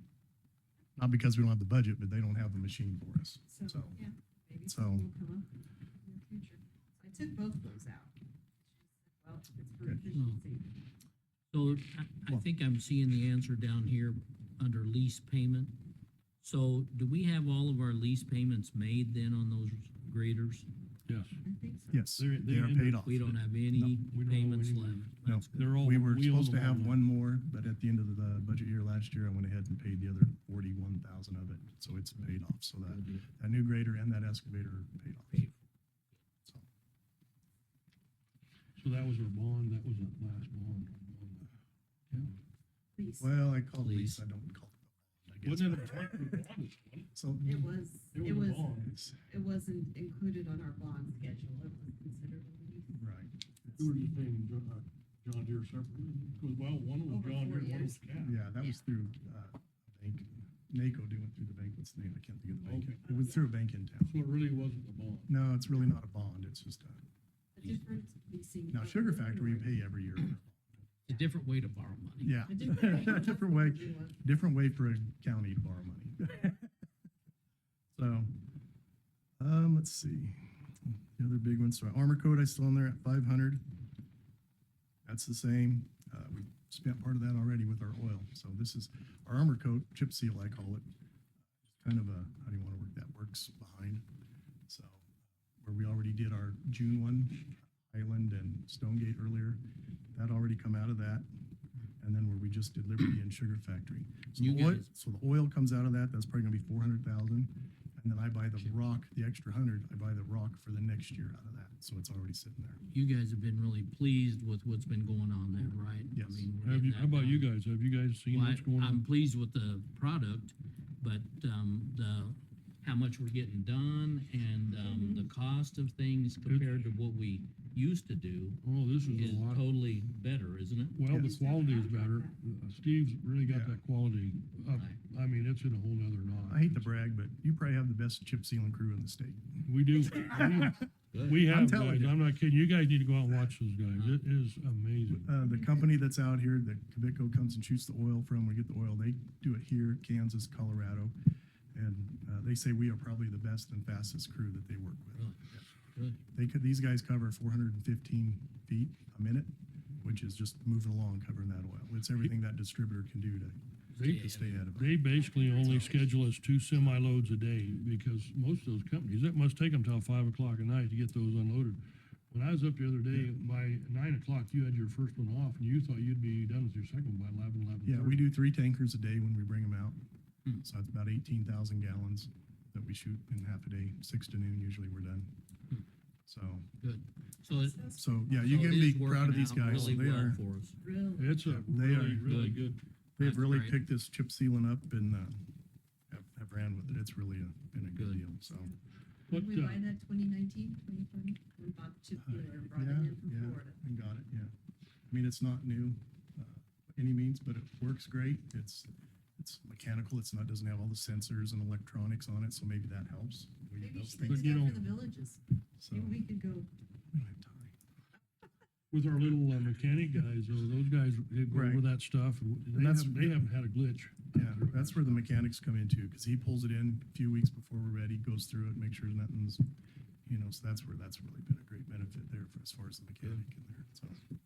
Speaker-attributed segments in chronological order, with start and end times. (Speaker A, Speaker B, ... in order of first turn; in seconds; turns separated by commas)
Speaker A: 1.0-4.0, Speaker B: 3.5-5.5, Speaker A: 4.7-5.1, Speaker B: 6.0-8.2, Speaker B: 8.8-10.8, Speaker C: 10.1-10.4, Speaker C: 11.5-15.8, Speaker C: 16.4-20.7, Speaker D: 21.1-21.4, Speaker B: 21.4-22.0, Speaker A: 21.9-24.0, Speaker D: 22.2-23.4, Speaker C: 23.1-25.7, Speaker D: 24.1-27.0, Speaker A: 25.2-35.5, Speaker C: 32.9-33.3, Speaker C: 35.3-35.6, Speaker D: 38.8-41.5, Speaker B: 43.0-43.3, Speaker A: 43.2-46.3, Speaker C: 43.8-44.2, Speaker D: 45.5-47.1, Speaker A: 47.1-47.8, Speaker B: 47.4-53.0, Speaker D: 48.1-48.9, Speaker A: 48.8-49.2, Speaker A: 53.0-53.9, Speaker D: 53.8-58.4, Speaker B: 57.1-58.0, Speaker A: 58.2-64.2, Speaker D: 62.6-63.0, Speaker B: 63.1-63.4, Speaker D: 64.1-65.3, Speaker A: 65.3-67.0, Speaker B: 67.5-69.7, Speaker A: 68.7-70.8, Speaker C: 71.1-72.3, Speaker A: 72.2-76.7, Speaker B: 72.5-74.2, Speaker A: 77.9-78.3, Speaker A: 79.4-83.6, Speaker A: 85.0-90.9, Speaker A: 91.7-94.1, Speaker A: 94.7-95.1, Speaker A: 95.6-99.6, Speaker A: 100.1-101.3, Speaker A: 102.0-112.8, Speaker C: 104.4-104.9, Speaker C: 112.9-117.5, Speaker A: 116.1-116.5, Speaker D: 116.6-119.1, Speaker C: 118.3-131.0, Speaker B: 124.8-125.3, Speaker D: 126.5-126.8, Speaker D: 128.6-129.7, Speaker D: 130.9-136.9, Speaker B: 131.1-132.3, Speaker A: 133.5-133.8, Speaker C: 134.7-135.0, Speaker A: 136.4-140.9, Speaker D: 139.7-145.4, Speaker C: 141.1-141.5, Speaker A: 141.5-142.2, Speaker C: 143.9-144.2, Speaker A: 145.1-151.2, Speaker A: 151.7-155.3, Speaker C: 155.2-156.2, Speaker A: 156.3-165.1, Speaker C: 163.9-164.7, Speaker D: 164.0-178.3, Speaker B: 165.1-166.0, Speaker C: 165.6-165.9, Speaker A: 166.7-167.2, Speaker A: 177.8-180.0, Speaker A: 180.6-185.3, Speaker A: 186.3-186.7, Speaker C: 186.8-190.8, Speaker B: 187.5-188.8, Speaker A: 187.9-190.4, Speaker B: 189.7-190.0, Speaker B: 190.8-191.4, Speaker D: 191.2-192.8, Speaker A: 191.4-192.3, Speaker C: 192.2-192.6, Speaker A: 193.2-195.5, Speaker C: 193.2-193.9, Speaker A: 196.1-198.7, Speaker C: 197.9-198.3, Speaker D: 199.3-199.9, Speaker B: 199.3-203.8, Speaker A: 202.2-204.6, Speaker A: 205.1-214.7, Speaker B: 213.8-216.7, Speaker D: 214.1-214.9, Speaker A: 215.8-216.2, Speaker A: 217.1-217.8, Speaker D: 218.9-225.2, Speaker A: 221.5-221.9, Speaker A: 222.7-223.4, Speaker A: 224.3-229.7, Speaker A: 230.3-234.2